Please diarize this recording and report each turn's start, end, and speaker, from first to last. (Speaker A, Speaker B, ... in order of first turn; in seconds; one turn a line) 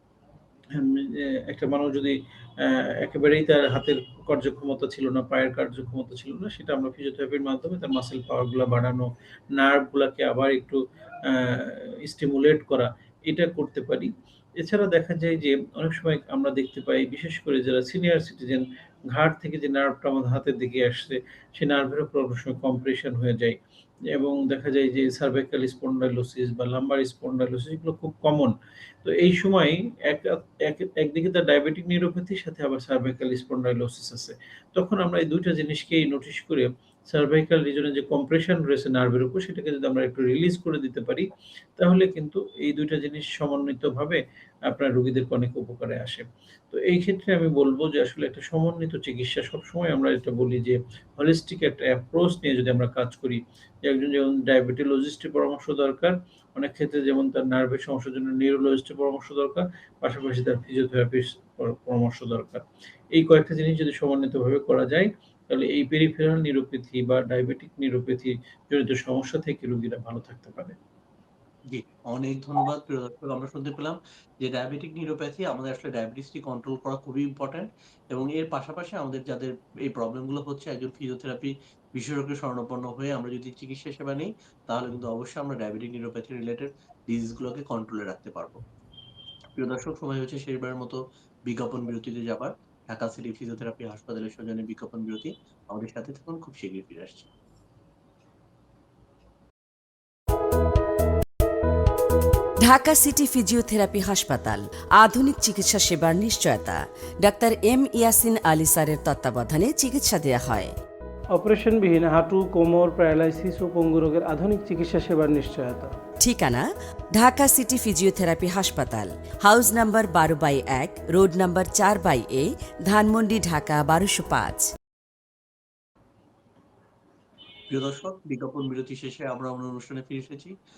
Speaker A: 0.7-23.6
Speaker A: 24.1-70.8
Speaker B: 71.7-88.6
Speaker B: 89.5-97.3
Speaker C: 102.6-110.7
Speaker D: 111.3-115.9
Speaker C: 116.2-124.7
Speaker B: 127.7-130.5